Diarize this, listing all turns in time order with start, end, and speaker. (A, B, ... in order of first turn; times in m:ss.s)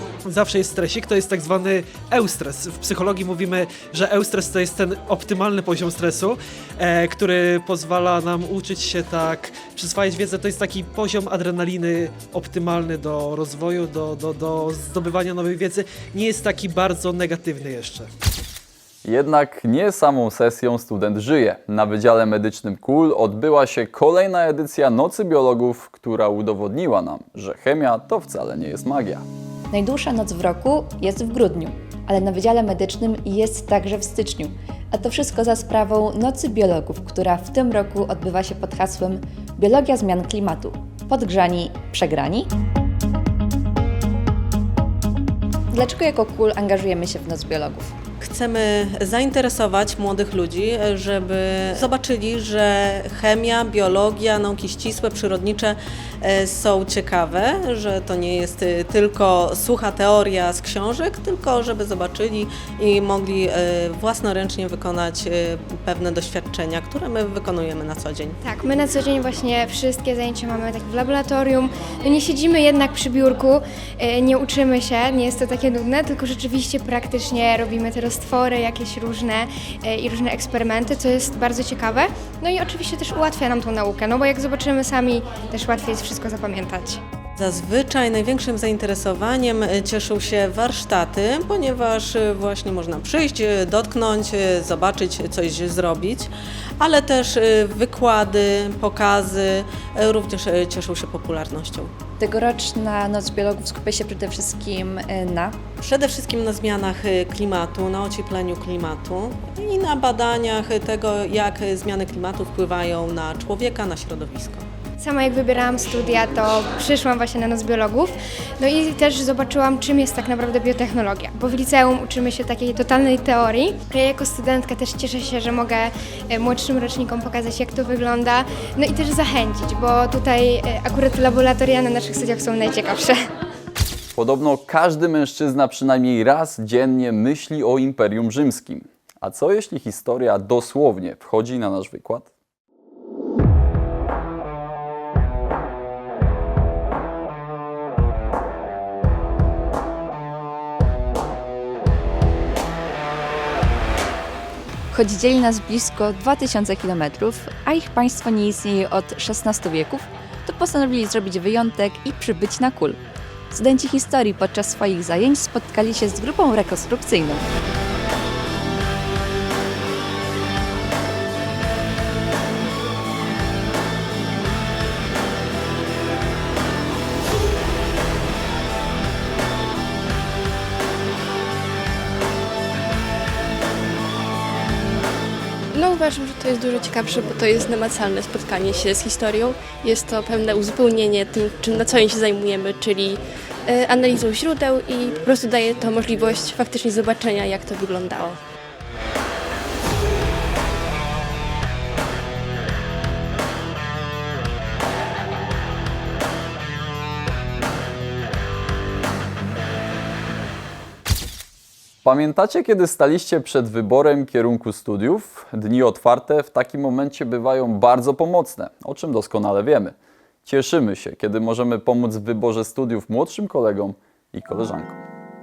0:00.3-0:18.1 A
0:19.0-0:29.2 B
0:29.7-0:42.5 C
0:45.7-0:47.9 C
0:48.2-1:08.4 D
1:08.4-1:27.0 E
1:27.4-1:41.9 D
1:42.2-1:45.6 C
1:45.8-1:54.6 D
1:55.0-2:13.2 E
2:14.2-2:22.3 B
2:34.9-2:43.0 C
2:43.5-2:47.5 C
3:05.7-3:18.4 F
3:32.0-3:45.0 B